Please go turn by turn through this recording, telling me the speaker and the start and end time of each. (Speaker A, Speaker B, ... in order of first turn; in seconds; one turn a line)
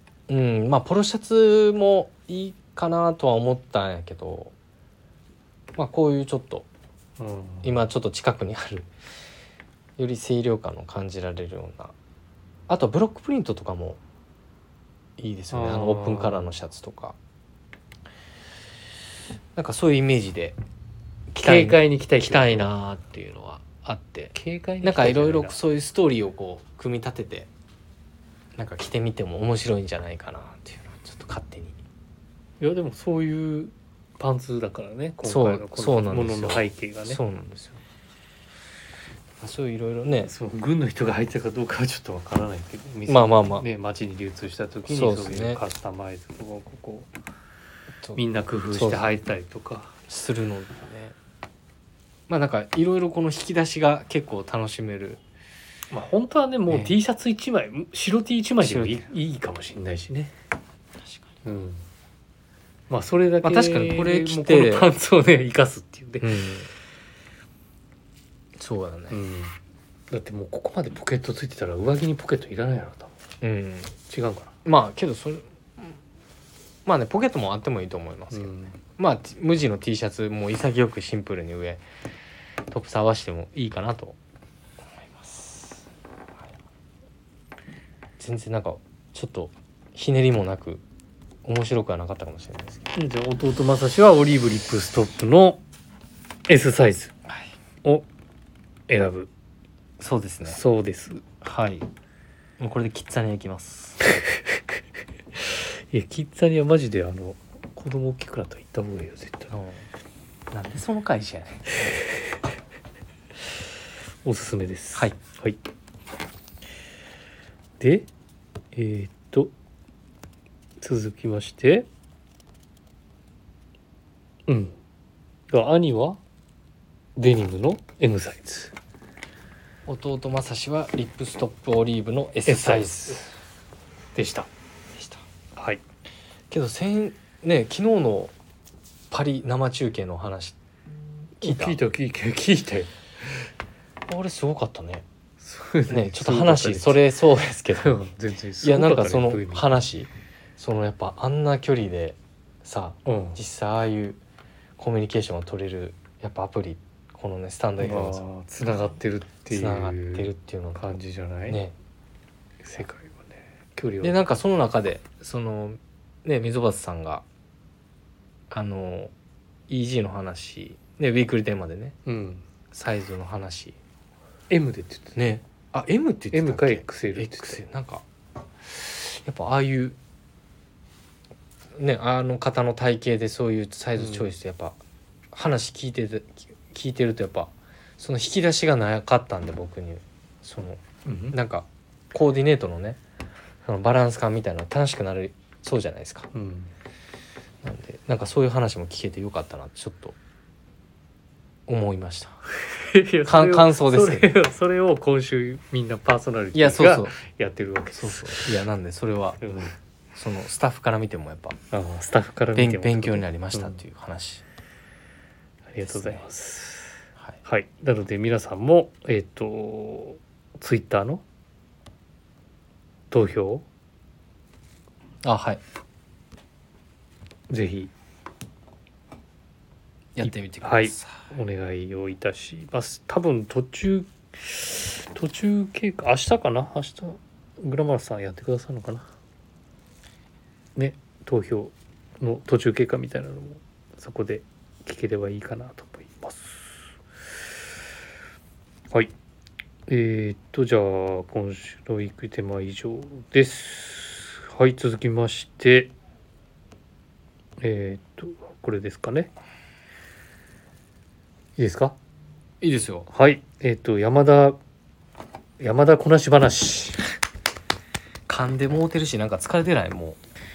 Speaker A: 0.3-4.5
Speaker A: 5.7-6.7
Speaker B: 7.2-7.7
Speaker A: 7.6-8.9
Speaker A: 10.0-11.9
Speaker A: 12.7-14.0
Speaker A: 15.2-17.2
Speaker B: 15.5-16.5
Speaker A: 19.5-20.6
Speaker B: 21.3-22.7
Speaker A: 21.4-27.5
Speaker B: 24.3-25.6
Speaker A: 28.6-31.8
Speaker B: 32.6-37.2
Speaker A: 35.2-37.8
Speaker A: 39.4-40.3
Speaker B: 40.2-47.1
Speaker A: 43.1-43.6
Speaker A: 44.9-45.6
Speaker A: 48.0-49.1
Speaker B: 48.1-49.9
Speaker A: 50.1-51.1
Speaker A: 52.3-55.2
Speaker B: 55.9-60.3
Speaker A: 56.7-57.0
Speaker A: 58.6-59.1
Speaker B: 61.4-61.8
Speaker B: 62.9-66.3
Speaker A: 63.4-64.9
Speaker A: 66.2-66.7
Speaker A: 68.6-69.2
Speaker B: 69.1-69.5
Speaker B: 70.1-73.1
Speaker A: 73.4-73.9
Speaker B: 74.1-74.5
Speaker A: 74.6-76.0
Speaker A: 76.8-81.8
Speaker B: 78.3-78.8
Speaker A: 82.7-84.2
Speaker A: 85.0-85.8
Speaker A: 88.2-90.8
Speaker A: 91.4-92.9
Speaker B: 92.9-95.6
Speaker B: 96.5-97.1
Speaker B: 98.9-99.3
Speaker A: 100.0-100.6
Speaker B: 100.5-101.2
Speaker A: 101.4-101.8
Speaker A: 102.6-104.2
Speaker B: 104.0-104.6
Speaker B: 105.4-109.5
Speaker A: 109.5-109.8
Speaker A: 110.5-111.7
Speaker B: 114.2-115.6
Speaker B: 117.8-118.1
Speaker B: 118.7-119.5
Speaker B: 120.8-121.8
Speaker B: 124.5-124.7
Speaker B: 125.5-126.2
Speaker B: 127.2-128.7
Speaker A: 129.8-133.3
Speaker B: 132.4-133.2
Speaker B: 134.1-134.5
Speaker A: 134.9-135.2
Speaker B: 135.6-135.8
Speaker A: 136.5-138.3
Speaker A: 139.1-140.6
Speaker A: 141.4-141.8
Speaker B: 141.4-142.9
Speaker A: 144.1-145.0
Speaker B: 145.4-147.0
Speaker A: 145.9-148.0
Speaker B: 147.8-149.7
Speaker A: 148.6-154.2
Speaker B: 153.1-153.4
Speaker A: 154.8-158.2
Speaker B: 157.8-161.6
Speaker A: 159.5-160.9
Speaker A: 161.5-161.7
Speaker B: 162.6-164.2
Speaker A: 164.0-167.2
Speaker A: 168.5-169.1
Speaker A: 169.7-171.9
Speaker B: 172.1-172.4
Speaker A: 172.7-173.8
Speaker B: 174.5-175.2
Speaker A: 175.2-178.0
Speaker B: 176.3-177.6
Speaker A: 178.6-180.0
Speaker A: 181.8-184.8
Speaker B: 184.0-184.3
Speaker A: 185.3-190.8
Speaker B: 191.1-191.4
Speaker A: 191.3-193.0
Speaker A: 193.6-196.3
Speaker B: 196.3-196.7
Speaker A: 197.6-200.2
Speaker A: 201.7-202.3
Speaker B: 202.6-208.5
Speaker A: 203.2-204.3
Speaker A: 206.5-207.2
Speaker A: 207.9-209.4
Speaker B: 209.4-209.7
Speaker A: 210.1-211.6
Speaker B: 211.7-213.8
Speaker A: 212.6-214.4
Speaker B: 215.7-221.2
Speaker A: 215.8-216.2
Speaker B: 223.1-223.6
Speaker A: 225.2-225.6
Speaker B: 227.5-227.9
Speaker A: 230.2-231.1
Speaker B: 230.2-239.0
Speaker B: 240.8-246.6
Speaker B: 249.9-255.9
Speaker B: 257.6-259.3
Speaker B: 261.6-261.9
Speaker A: 262.6-263.1
Speaker B: 263.1-264.6
Speaker B: 265.6-267.0
Speaker A: 268.3-270.2